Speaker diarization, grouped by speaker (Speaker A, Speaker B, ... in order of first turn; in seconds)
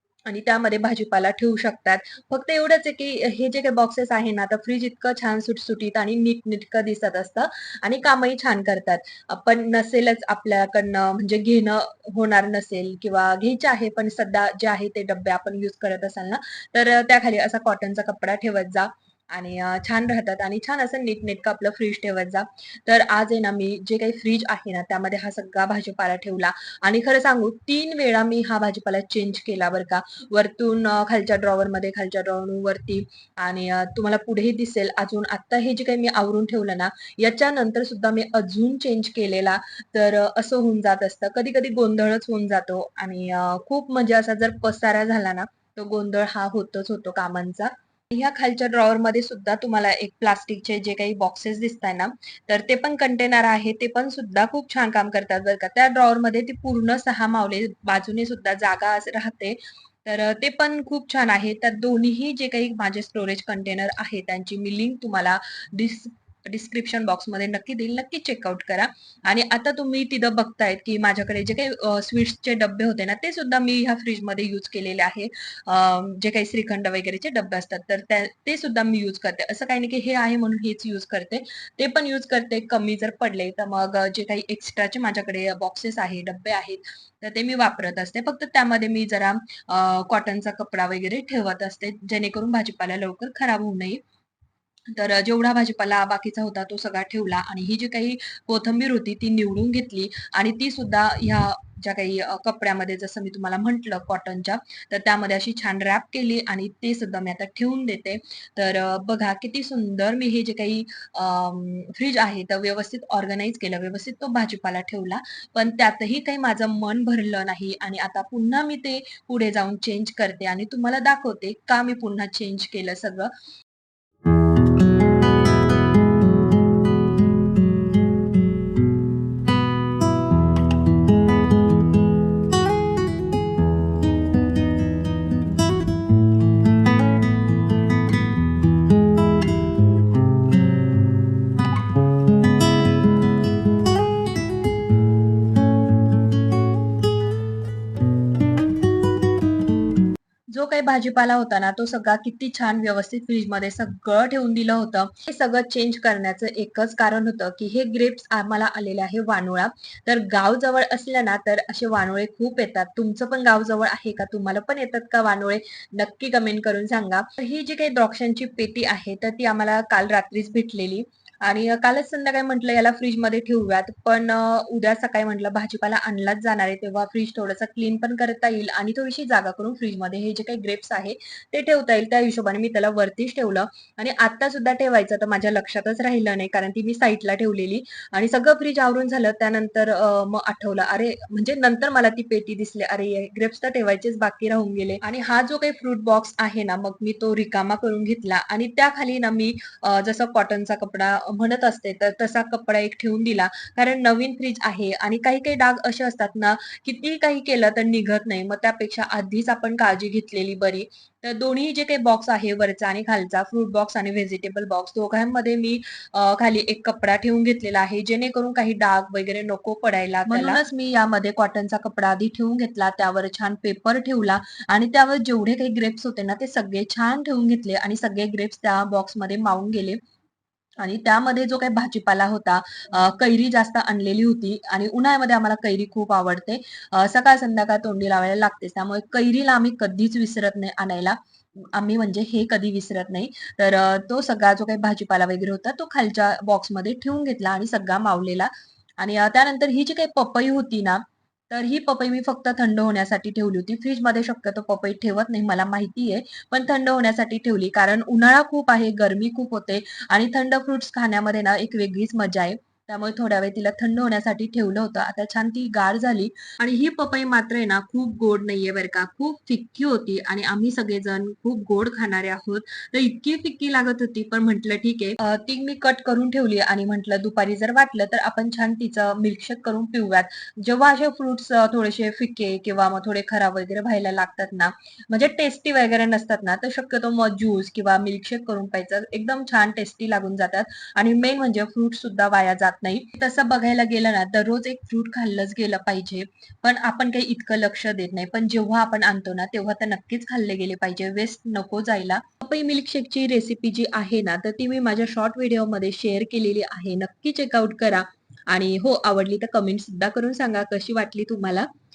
Speaker A: 0.3-94.0, 94.9-123.3, 150.5-230.0, 230.8-311.7